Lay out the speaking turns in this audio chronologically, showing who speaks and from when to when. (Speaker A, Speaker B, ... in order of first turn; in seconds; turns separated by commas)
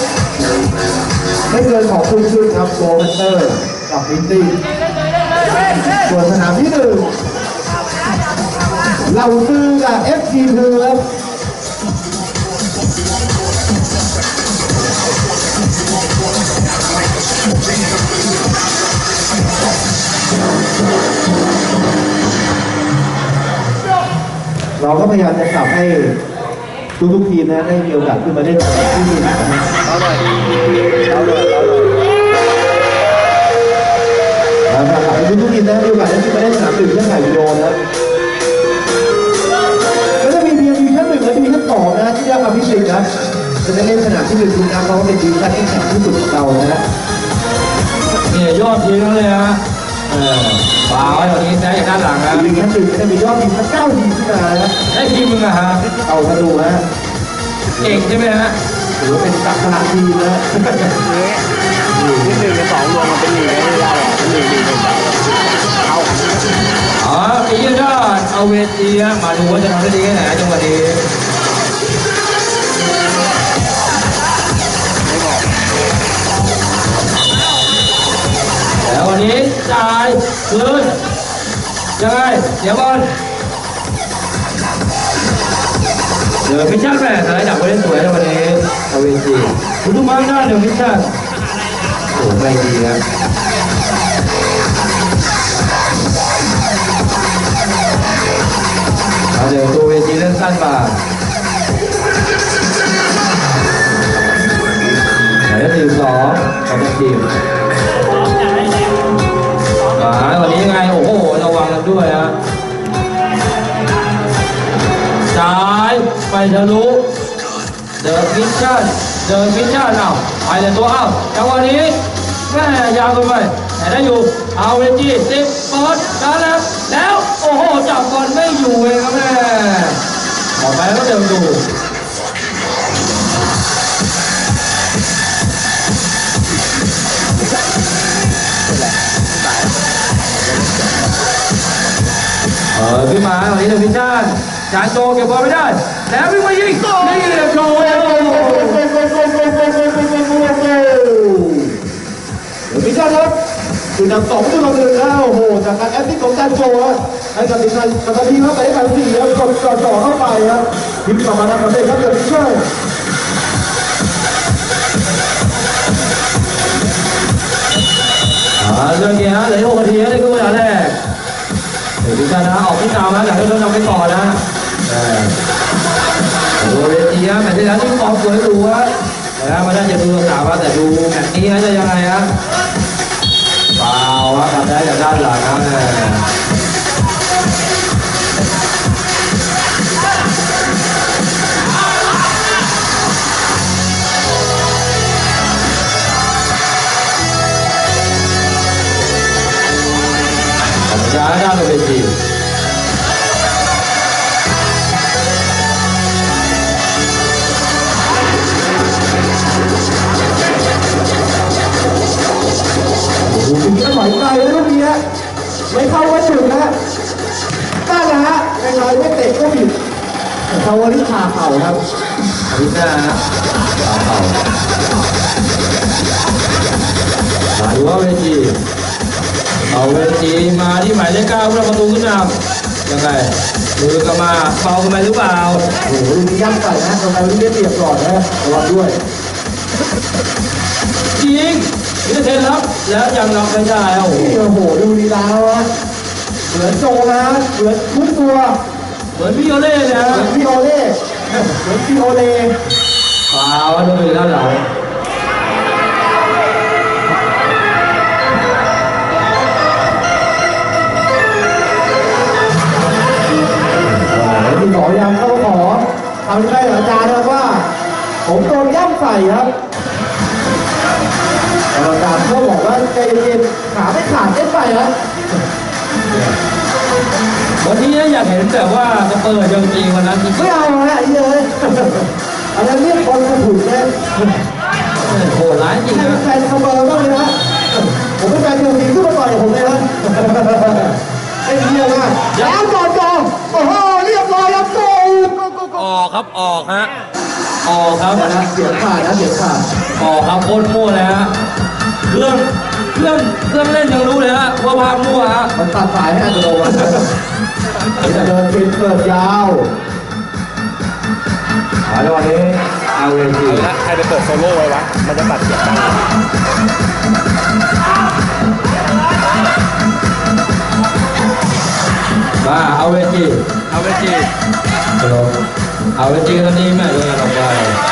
Speaker A: 1.5-4.6, Speaker A: 6.0-7.1, Speaker A: 9.1-11.0, Speaker A: 24.8-26.2, Speaker A: 27.0-29.8, Speaker B: 29.8-30.2, Speaker B: 31.1-31.9, Speaker A: 34.7-37.8, Speaker A: 40.2-43.0, Speaker A: 43.6-46.8, Speaker C: 48.2-52.5, Speaker A: 52.3-54.7, Speaker C: 54.9-55.9, Speaker A: 56.0-56.8, Speaker A: 57.8-58.0, Speaker C: 57.8-58.5, Speaker A: 59.0-60.9, Speaker B: 61.0-61.4, Speaker C: 61.9-62.4, Speaker B: 62.2-66.5, Speaker C: 67.0-71.0, Speaker B: 75.1-75.4, Speaker C: 78.8-81.0, Speaker C: 82.0-83.1, Speaker C: 86.4-91.1, Speaker C: 92.1-93.0, Speaker C: 99.3-101.0, Speaker C: 105.5-107.3, Speaker C: 110.0-112.3, Speaker C: 115.3-117.0, Speaker C: 118.0-122.0, Speaker C: 122.5-130.0, Speaker C: 130.6-131.6, Speaker B: 138.7-139.8, Speaker B: 140.4-141.0, Speaker C: 142.7-148.8, Speaker A: 146.9-151.8, Speaker A: 152.7-153.3, Speaker A: 153.9-162.7, Speaker C: 168.6-171.0, Speaker C: 172.0-175.3, Speaker C: 176.6-182.3, Speaker C: 183.8-186.2, Speaker C: 200.9-202.1, Speaker A: 213.2-215.0, Speaker A: 215.7-216.7, Speaker A: 217.8-219.8, Speaker A: 220.5-221.8, Speaker C: 222.5-223.2, Speaker C: 223.8-224.4, Speaker C: 227.5-228.6, Speaker C: 229.7-232.3, Speaker C: 232.9-235.7, Speaker A: 235.8-239.0, Speaker C: 241.1-244.4, Speaker A: 244.1-245.7, Speaker A: 246.5-248.6, Speaker C: 249.1-250.3, Speaker A: 250.1-251.0, Speaker A: 251.5-252.5, Speaker C: 253.3-254.6, Speaker A: 263.9-267.7, Speaker A: 268.2-269.5, Speaker A: 271.7-274.9, Speaker C: 276.1-276.4, Speaker C: 277.6-280.5, Speaker A: 280.4-283.9, Speaker C: 285.0-286.2, Speaker A: 285.9-287.3, Speaker A: 288.2-290.9, Speaker A: 291.4-295.8, Speaker C: 295.8-296.9, Speaker C: 297.6-298.3, Speaker A: 298.1-299.6, Speaker C: 300.0-301.3, Speaker C: 302.0-305.5, Speaker A: 305.5-307.1, Speaker C: 308.0-308.3, Speaker A: 308.0-309.7, Speaker C: 311.9-313.7, Speaker B: 313.5-316.0, Speaker C: 322.4-324.3, Speaker C: 325.0-325.3, Speaker C: 326.0-327.8